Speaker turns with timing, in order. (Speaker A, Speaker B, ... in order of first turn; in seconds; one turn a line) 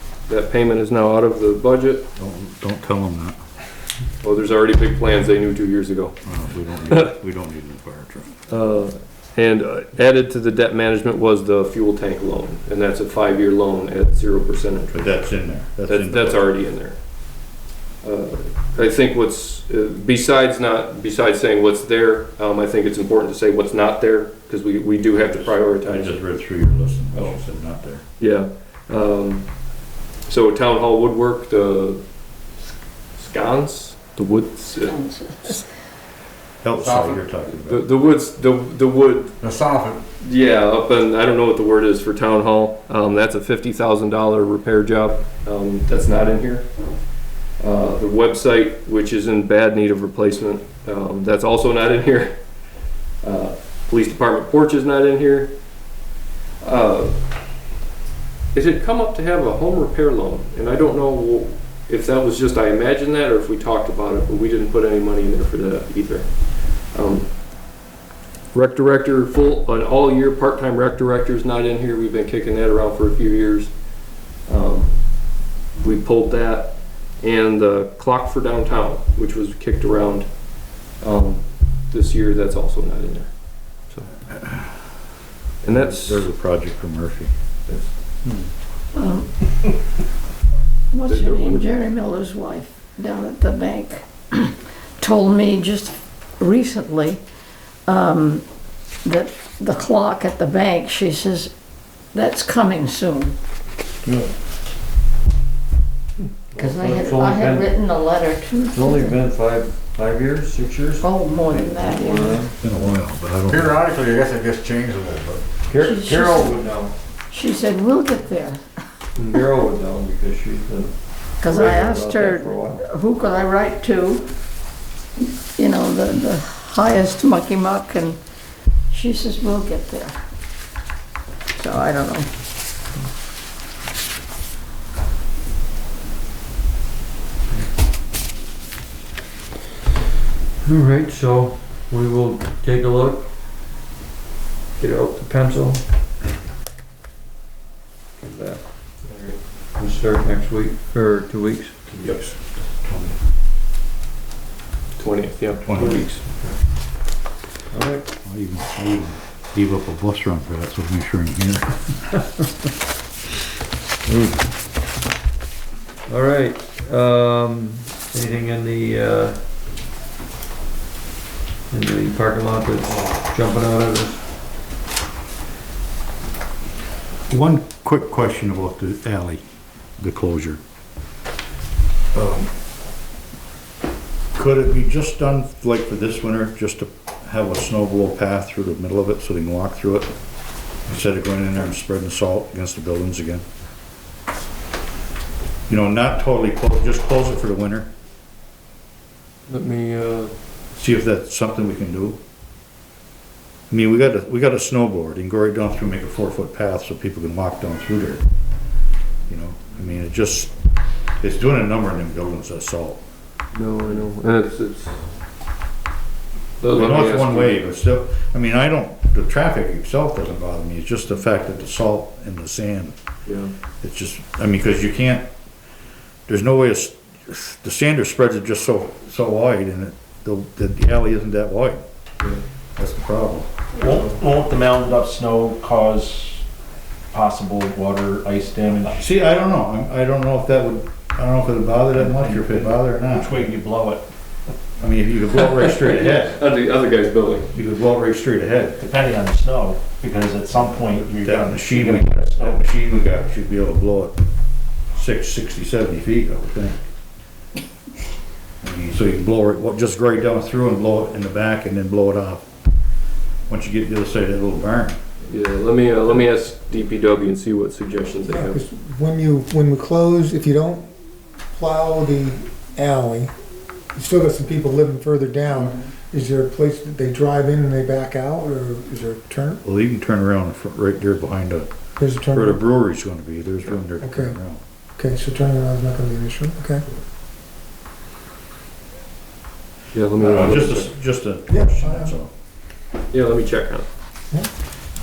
Speaker A: 0.3-2.1
Speaker B: 2.2-3.4
Speaker A: 4.2-6.2
Speaker B: 6.2-8.3
Speaker A: 6.9-7.1
Speaker A: 8.5-15.3
Speaker B: 14.9-16.5
Speaker A: 15.9-17.0
Speaker A: 18.0-26.2
Speaker B: 25.3-28.0
Speaker A: 28.2-29.5
Speaker A: 30.3-32.0
Speaker A: 33.2-35.6
Speaker C: 34.8-35.6
Speaker B: 36.6-37.8
Speaker D: 36.8-37.1
Speaker A: 37.5-39.4
Speaker D: 39.4-40.0
Speaker A: 40.2-46.7
Speaker A: 47.6-52.4
Speaker A: 53.2-55.5
Speaker A: 56.6-57.2
Speaker A: 58.5-66.3
Speaker A: 66.9-67.3
Speaker A: 68.5-73.7
Speaker A: 74.5-75.0
Speaker A: 75.8-80.3
Speaker A: 81.0-83.3
Speaker A: 85.6-86.3
Speaker B: 85.7-87.3
Speaker C: 88.9-89.4
Speaker C: 90.9-97.2
Speaker A: 91.1-91.7
Speaker C: 97.9-98.5
Speaker C: 99.0-101.5
Speaker C: 102.1-103.4
Speaker E: 106.5-107.7
Speaker C: 106.6-109.2
Speaker E: 108.7-112.5
Speaker C: 111.0-112.5
Speaker B: 112.6-113.8
Speaker D: 113.6-115.4
Speaker E: 115.7-116.9
Speaker C: 115.7-116.7
Speaker C: 117.3-118.6
Speaker E: 119.2-122.8
Speaker C: 121.4-124.3
Speaker C: 125.5-128.2
Speaker C: 128.9-130.2
Speaker C: 131.6-132.3
Speaker E: 140.6-143.3
Speaker E: 144.8-145.8
Speaker E: 148.2-148.6
Speaker A: 149.0-149.4
Speaker E: 149.7-151.8
Speaker B: 151.9-153.2
Speaker A: 155.0-156.6
Speaker B: 155.7-156.1
Speaker E: 157.7-158.1
Speaker B: 158.2-162.1
Speaker E: 164.1-164.3
Speaker E: 166.1-169.4
Speaker E: 171.7-174.2
Speaker B: 177.3-179.4
Speaker B: 180.0-180.6
Speaker B: 182.1-182.5
Speaker B: 184.3-190.1
Speaker B: 190.8-193.4
Speaker B: 195.7-197.9
Speaker A: 199.5-200.3
Speaker B: 200.8-202.2
Speaker B: 203.7-208.2
Speaker B: 209.3-210.5
Speaker B: 211.2-213.0
Speaker A: 213.5-215.0
Speaker A: 216.6-217.6
Speaker B: 216.7-222.9
Speaker A: 223.3-223.5
Speaker B: 223.8-225.3
Speaker B: 226.3-231.8
Speaker B: 232.8-233.5
Speaker F: 233.8-236.4
Speaker F: 237.1-239.0
Speaker B: 238.9-243.5
Speaker F: 242.1-244.1
Speaker B: 244.8-246.4
Speaker A: 245.6-247.5
Speaker B: 247.5-248.8
Speaker F: 248.8-252.6
Speaker B: 250.7-254.2
Speaker B: 254.9-256.8
Speaker B: 258.7-262.5
Speaker B: 263.5-265.0
Speaker A: 265.3-268.6
Speaker G: 268.3-270.9
Speaker G: 271.5-273.3
Speaker G: 273.9-279.6
Speaker B: 279.6-281.7
Speaker G: 282.0-282.6
Speaker B: 282.3-284.6
Speaker G: 284.0-284.4
Speaker G: 285.0-286.9
Speaker A: 289.9-290.9
Speaker B: 290.2-292.3
Speaker G: 291.5-292.1
Speaker A: 293.1-293.9